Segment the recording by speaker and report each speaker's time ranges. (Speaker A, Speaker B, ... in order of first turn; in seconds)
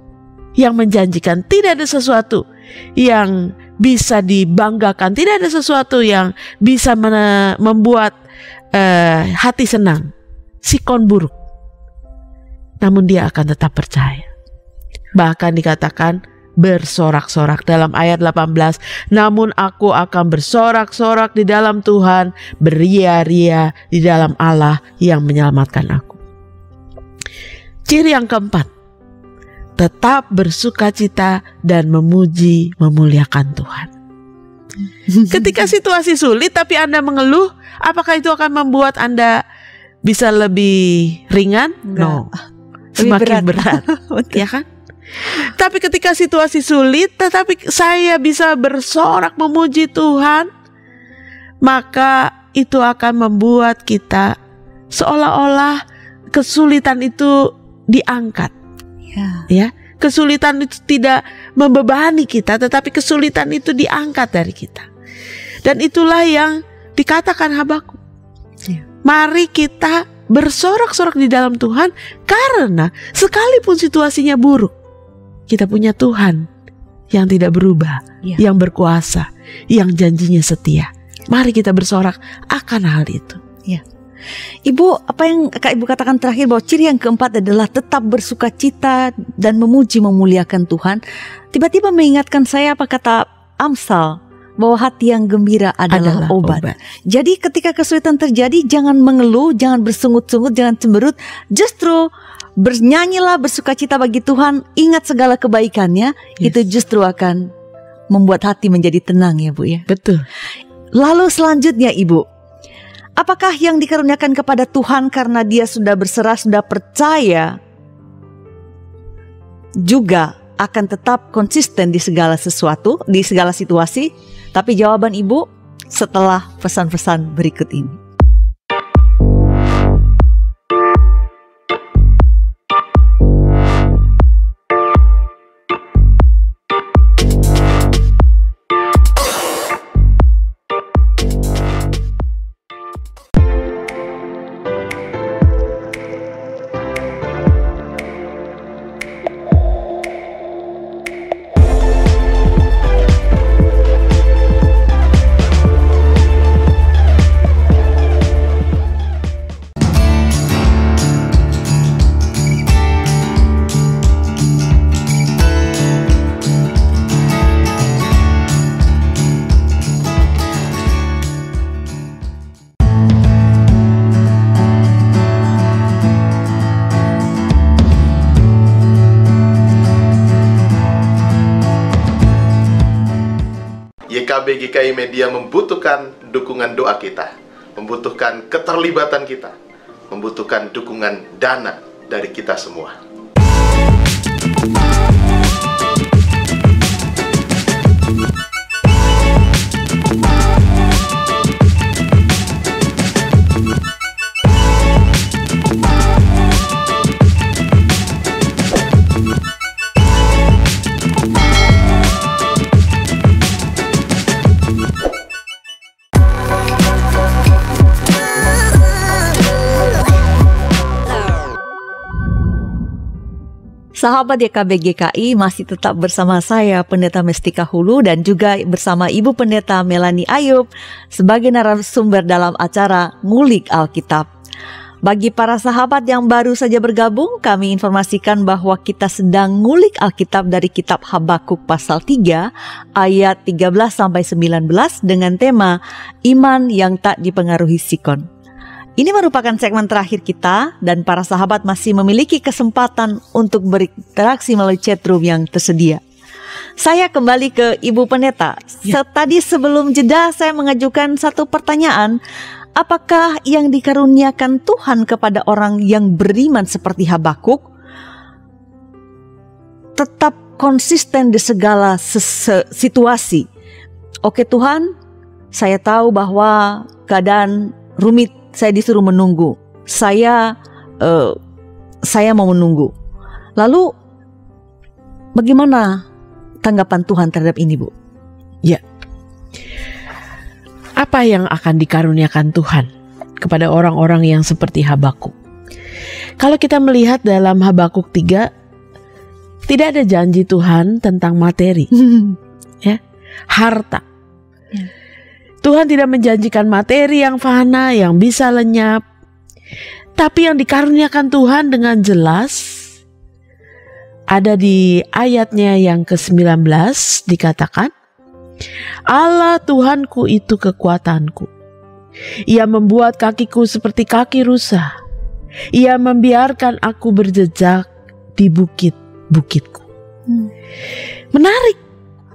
Speaker A: 0.6-2.4, 3.0-8.1, 8.7-10.1, 10.6-11.3, 12.8-14.3, 15.1-26.2, 27.9-28.7, 29.8-33.9, 35.3-39.4, 40.0-42.3, 43.0-44.7, 45.2-50.5, 51.6-54.3, 54.9-55.8, 56.3-58.5, 59.5-64.9, 65.6-68.0, 69.0-74.7, 75.5-76.5, 77.1-83.4, 95.9-96.8, 109.9-110.2, 291.0-292.9, 293.4-295.3, 296.4-298.5, 299.6-301.9, 303.5-304.0, 305.6-309.0, 310.1-312.9, 314.3-317.9, 319.1-321.5, 322.5-324.9, 325.7-329.8, 331.3-331.8
Speaker B: 35.1-35.5, 41.9-42.4, 43.0-44.4, 59.1-59.5, 84.7-91.0, 91.5-107.5, 108.1-109.9, 110.9-112.2, 113.2-117.6, 119.8-128.0, 223.9-234.2, 235.0-248.2, 249.0-256.0, 256.8-262.2, 262.8-267.6, 269.9-273.5, 274.2-274.9, 275.5-281.4, 282.1-282.9, 283.6-283.9, 285.3-286.0, 286.6-287.9, 302.0-302.3
Speaker C: 184.1-189.5, 190.1-192.9